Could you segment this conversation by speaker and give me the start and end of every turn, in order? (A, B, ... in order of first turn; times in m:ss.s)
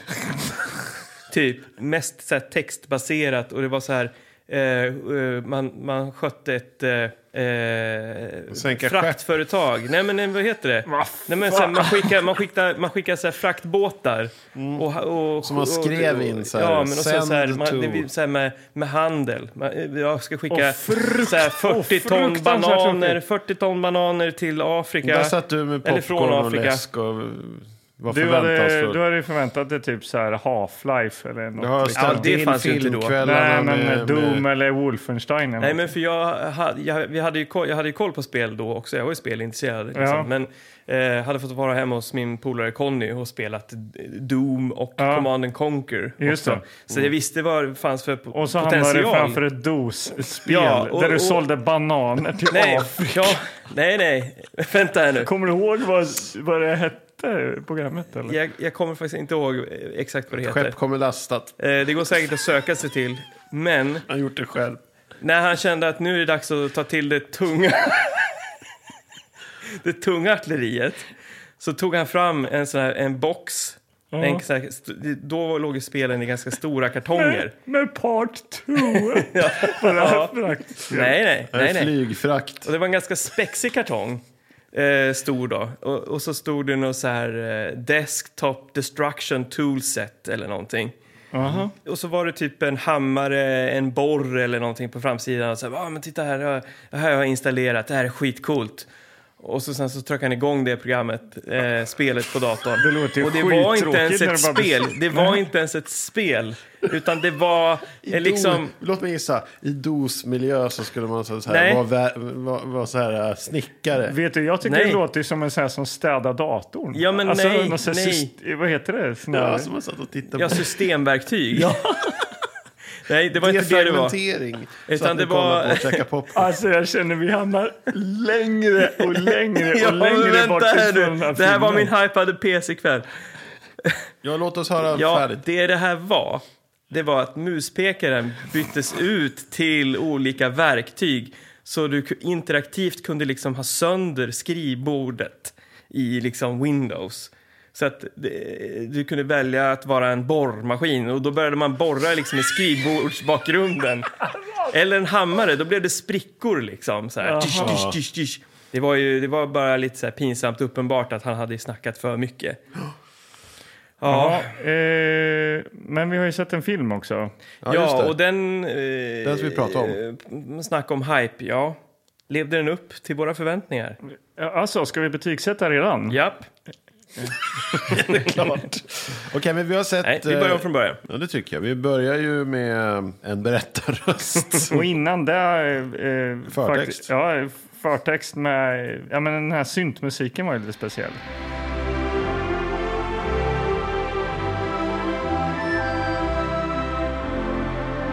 0:01.3-0:26.8 A
0:08.5-0:09.2 B
0:10.9-0:12.2 C
0:14.5-0:14.9 B
0:15.4-0:18.1 B
0:20.5-0:23.2 C
0:25.0-0:29.0 B
0:28.1-0:32.3 C
0:31.6-0:34.4 B
0:31.9-0:33.1 A
0:33.2-0:35.9 C
0:35.6-0:49.4 A
0:40.0-0:40.3 C
0:45.0-0:45.3 C
0:46.2-0:46.6 C
0:48.3-0:53.4 C
0:50.4-0:51.4 A
0:52.5-0:55.3 A
0:55.2-0:58.4 C
0:58.3-1:00.7 A
1:00.3-1:01.5 B
1:01.6-1:04.0 A
1:04.1-1:04.8 B
1:05.2-1:08.3 A
1:09.7-1:11.1 A
1:11.6-1:17.5 A
1:14.1-1:14.4 C
1:17.2-1:21.2 C
1:18.8-1:20.3 A
1:20.9-1:21.9 A
1:21.5-1:22.7 B
1:22.6-1:24.2 A
1:24.7-1:30.9 A
1:31.3-1:31.7 C
1:31.8-1:38.9 A
1:39.4-1:48.7 A
1:42.8-1:45.4 C
1:48.0-1:54.2 B
1:51.5-1:51.8 A
1:54.0-1:59.7 C
1:54.6-1:55.0 A
1:56.9-1:58.3 A
1:59.3-2:00.8 B
2:00.3-2:01.8 A
2:01.6-2:02.2 C
2:03.0-2:04.2 A
2:03.4-2:06.5 B
2:04.9-2:06.0 A
2:06.3-2:11.9 C
2:09.0-2:13.1 A
2:14.2-2:15.4 B
2:14.9-2:34.1 A
2:34.7-2:42.6 A
2:37.2-2:37.8 C
2:37.6-2:38.0 B
2:44.0-2:44.5 A
2:44.0-2:47.3 C
2:47.6-2:48.1 B
2:47.7-2:51.8 A
2:49.2-2:50.0 B
2:52.3-2:54.0 A
2:54.4-2:56.2 C
2:56.1-2:56.5 A
2:57.9-3:04.8 B
2:57.9-2:58.4 A
3:00.0-3:01.0 A
3:04.7-3:11.2 C
3:06.5-3:07.1 B